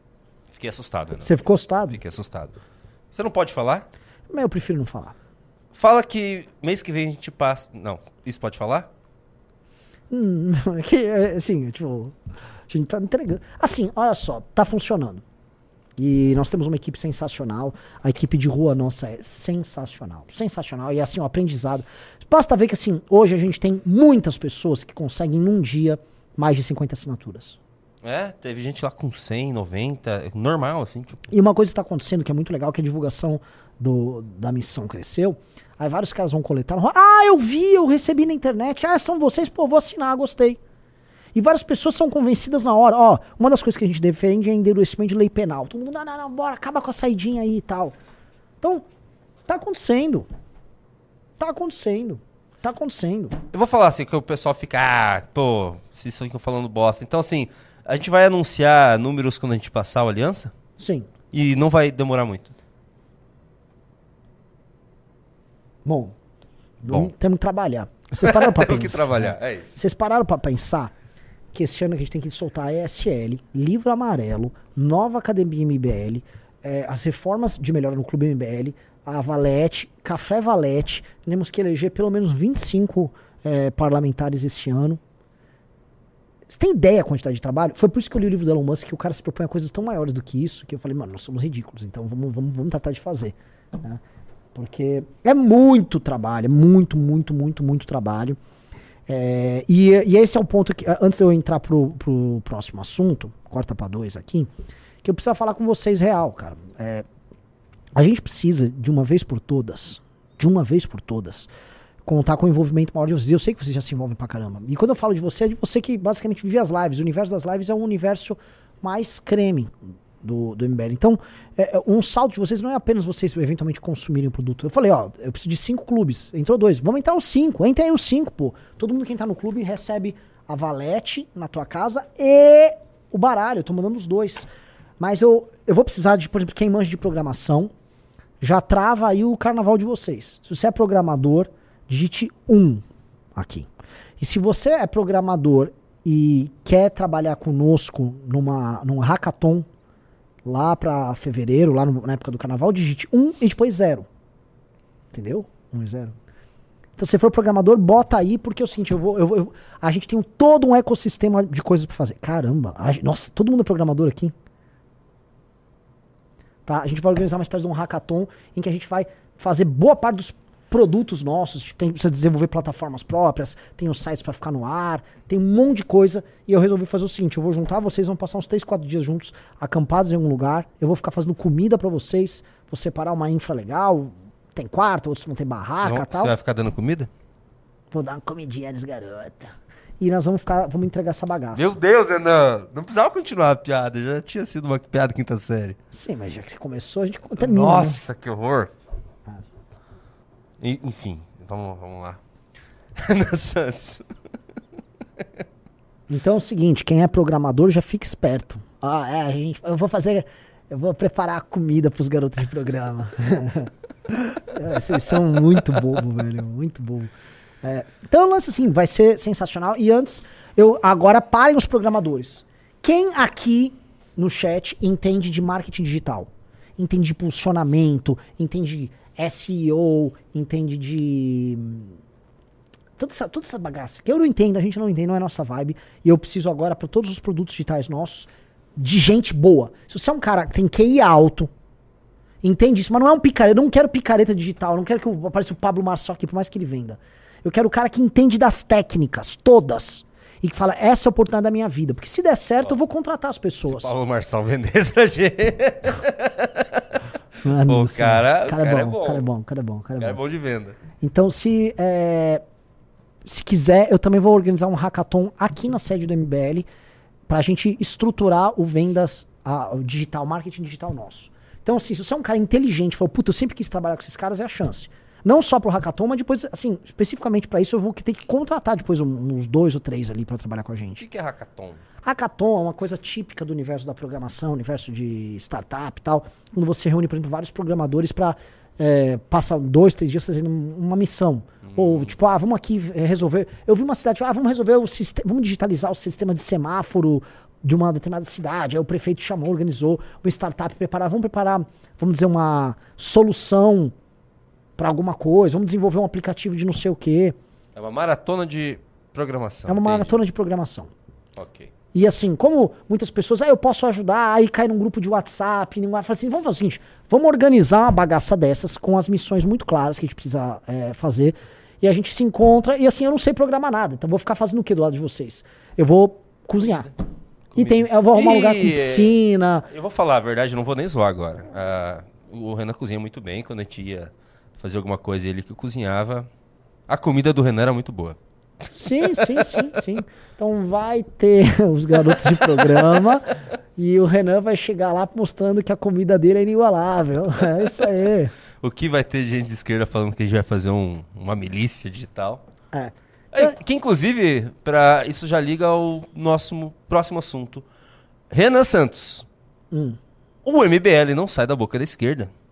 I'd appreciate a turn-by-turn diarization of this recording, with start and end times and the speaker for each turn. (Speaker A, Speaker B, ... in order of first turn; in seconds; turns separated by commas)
Speaker A: 0.5-1.4, Speaker B: 1.2-2.0, Speaker A: 1.9-2.5, Speaker A: 3.1-3.9, Speaker B: 4.3-5.2, Speaker A: 5.7-8.9, Speaker B: 10.1-12.2, Speaker B: 12.7-15.2, Speaker B: 16.0-27.6, Speaker A: 28.0-31.2, Speaker B: 31.3-40.6, Speaker B: 41.4-48.0, Speaker B: 49.5-50.3, Speaker B: 51.4-53.4, Speaker A: 53.5-60.5, Speaker B: 60.8-61.1, Speaker A: 61.3-62.5, Speaker B: 65.8-66.1, Speaker B: 66.8-70.9, Speaker A: 66.8-67.1, Speaker A: 68.2-69.8, Speaker B: 71.5-85.0, Speaker B: 86.5-94.0, Speaker B: 94.5-98.4, Speaker B: 99.1-104.5, Speaker B: 105.0-107.0, Speaker B: 108.0-111.5, Speaker B: 112.1-134.5, Speaker B: 135.0-137.7, Speaker B: 138.4-142.8, Speaker B: 143.4-143.7, Speaker B: 144.2-149.7, Speaker B: 150.4-154.1, Speaker B: 155.1-156.1, Speaker B: 157.0-164.3, Speaker B: 166.7-186.3, Speaker A: 185.8-187.1, Speaker B: 187.9-191.7, Speaker A: 191.6-195.8, Speaker B: 195.9-198.0, Speaker A: 197.4-198.7, Speaker A: 200.6-202.2, Speaker A: 203.0-204.1, Speaker B: 206.1-217.1, Speaker B: 217.6-231.9, Speaker B: 233.0-241.5, Speaker B: 242.4-253.9, Speaker A: 253.6-257.0, Speaker B: 257.4-260.2, Speaker A: 257.6-259.3, Speaker A: 260.0-260.8, Speaker B: 261.0-262.4, Speaker B: 263.3-266.7, Speaker B: 267.3-281.0, Speaker A: 281.0-281.8, Speaker B: 282.0-303.9, Speaker A: 291.6-292.2, Speaker B: 304.8-307.4, Speaker A: 307.8-310.2, Speaker B: 309.7-310.9, Speaker A: 311.4-311.7, Speaker B: 311.9-326.9, Speaker A: 327.5-329.2, Speaker B: 327.6-329.7, Speaker A: 329.7-336.3, Speaker A: 336.9-338.2, Speaker B: 338.6-348.3, Speaker A: 339.2-339.6, Speaker A: 342.5-343.0, Speaker A: 348.6-352.4, Speaker B: 352.7-353.5, Speaker A: 353.3-357.6, Speaker A: 358.3-359.3, Speaker B: 359.7-360.0, Speaker A: 360.4-362.3